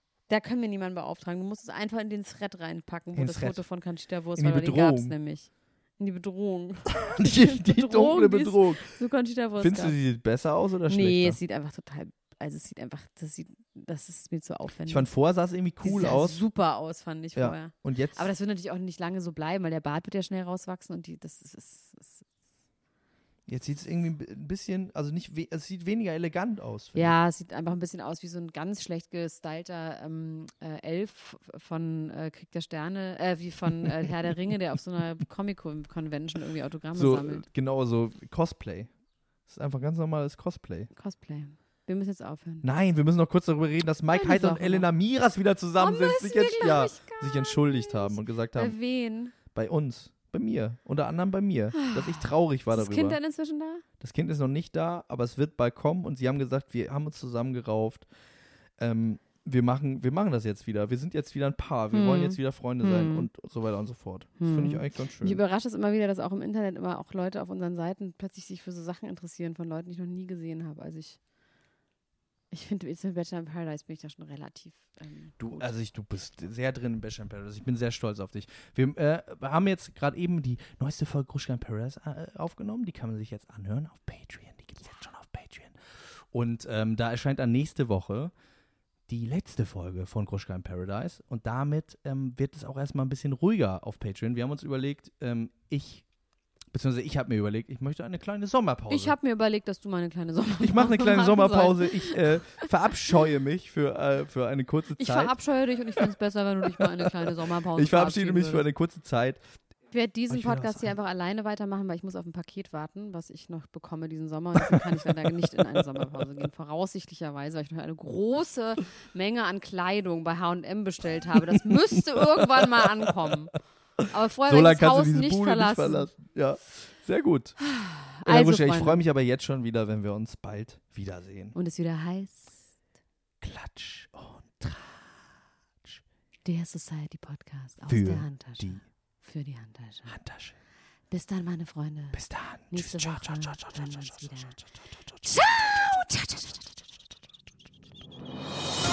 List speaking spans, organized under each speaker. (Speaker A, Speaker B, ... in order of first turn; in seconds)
Speaker A: 0.3-9.9, 10.9-15.1, 15.8-22.2, 26.9-37.5, 41.0-42.6, 44.1-44.9, 45.8-49.3, 51.8-53.8, 61.9-63.3, 64.4-71.2, 72.5-75.7, 98.9-102.7, 104.9-108.7, 109.9-126.1, 127.6-129.0, 131.5-132.6, 136.4-140.2, 141.1-142.2, 142.7-144.6, 145.2-146.8
Speaker B: 3.1-3.6, 4.4-5.1, 7.0-8.9, 9.6-11.4, 14.9-16.4, 17.3-18.3, 23.5-27.1, 36.9-38.9, 39.5-40.9, 42.6-48.8, 49.5-53.2, 54.0-58.0, 58.8-65.4, 75.4-85.8, 86.3-88.3, 89.1-96.0, 96.7-99.1, 100.6-105.3, 106.7-107.1, 107.7-109.4, 110.3-110.9, 122.2-123.3, 124.0-127.6, 128.2-131.6, 133.4-135.1, 137.9-138.8, 140.1-140.5, 142.1-146.0